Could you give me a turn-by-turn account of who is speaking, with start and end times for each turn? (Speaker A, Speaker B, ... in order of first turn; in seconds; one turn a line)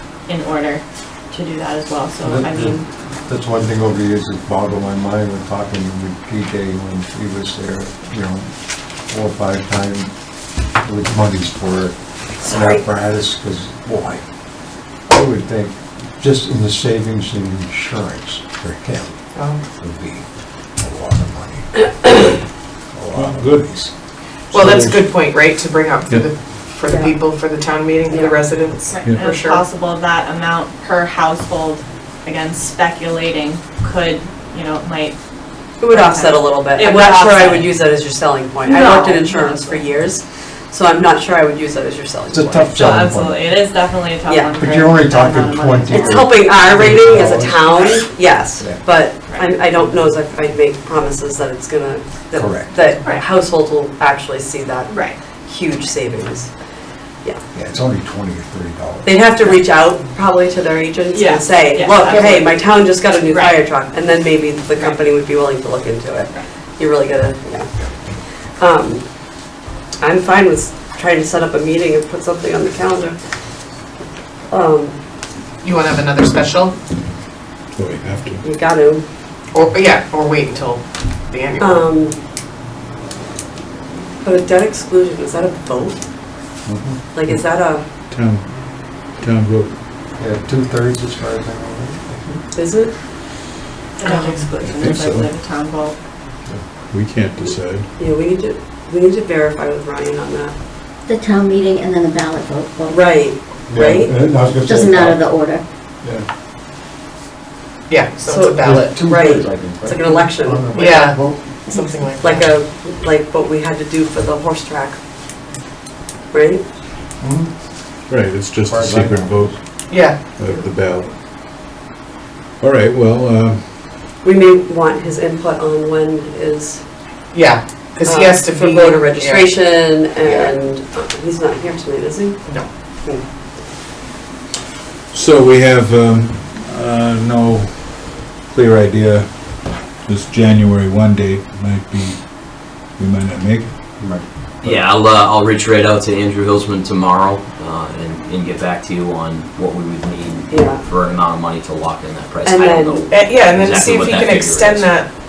Speaker A: 0.3-2.9
Speaker B: 2.2-8.5
Speaker B: 9.1-10.1
Speaker B: 10.8-14.2
Speaker C: 12.4-12.8
Speaker B: 15.1-22.4
Speaker D: 19.4-19.6
Speaker B: 22.9-23.9
Speaker E: 23.1-25.1
Speaker D: 24.5-29.6
Speaker C: 26.9-27.1
Speaker C: 28.1-28.4
Speaker A: 28.9-35.2
Speaker C: 35.8-42.8
Speaker A: 35.8-37.8
Speaker A: 38.6-39.9
Speaker D: 38.7-39.4
Speaker B: 42.3-43.4
Speaker A: 42.7-46.5
Speaker C: 44.2-44.5
Speaker B: 44.6-47.6
Speaker C: 45.9-56.5
Speaker B: 48.6-48.8
Speaker B: 52.3-52.7
Speaker A: 53.0-53.3
Speaker A: 54.9-55.2
Speaker B: 57.5-59.1
Speaker C: 59.0-67.7
Speaker A: 61.1-63.6
Speaker C: 68.6-69.1
Speaker C: 70.0-73.2
Speaker C: 74.5-75.0
Speaker D: 75.6-76.7
Speaker E: 77.7-78.4
Speaker C: 78.4-79.0
Speaker D: 79.5-81.8
Speaker C: 81.6-82.2
Speaker C: 84.2-86.0
Speaker B: 86.7-87.0
Speaker C: 87.1-87.8
Speaker E: 88.1-88.6
Speaker E: 89.1-89.7
Speaker B: 90.2-92.4
Speaker C: 92.5-92.9
Speaker A: 94.0-96.0
Speaker C: 94.0-94.4
Speaker E: 94.6-95.3
Speaker E: 96.9-97.9
Speaker C: 98.0-100.5
Speaker F: 101.0-103.0
Speaker C: 102.9-104.2
Speaker B: 103.7-105.3
Speaker F: 104.4-105.6
Speaker D: 107.9-109.0
Speaker C: 108.2-110.7
Speaker B: 108.6-111.5
Speaker D: 110.7-112.5
Speaker F: 111.7-112.1
Speaker C: 112.2-115.0
Speaker C: 116.3-116.6
Speaker B: 117.2-117.5
Speaker E: 118.1-119.5
Speaker B: 118.7-119.6
Speaker D: 119.9-120.2
Speaker E: 120.1-121.1
Speaker E: 122.6-123.7
Speaker C: 124.2-126.8
Speaker D: 127.3-129.6
Speaker C: 128.0-132.4
Speaker D: 130.2-130.5
Speaker E: 135.1-143.9
Speaker B: 144.0-144.2
Speaker G: 144.6-154.9
Speaker C: 150.5-150.8
Speaker C: 152.4-153.1
Speaker D: 153.1-155.1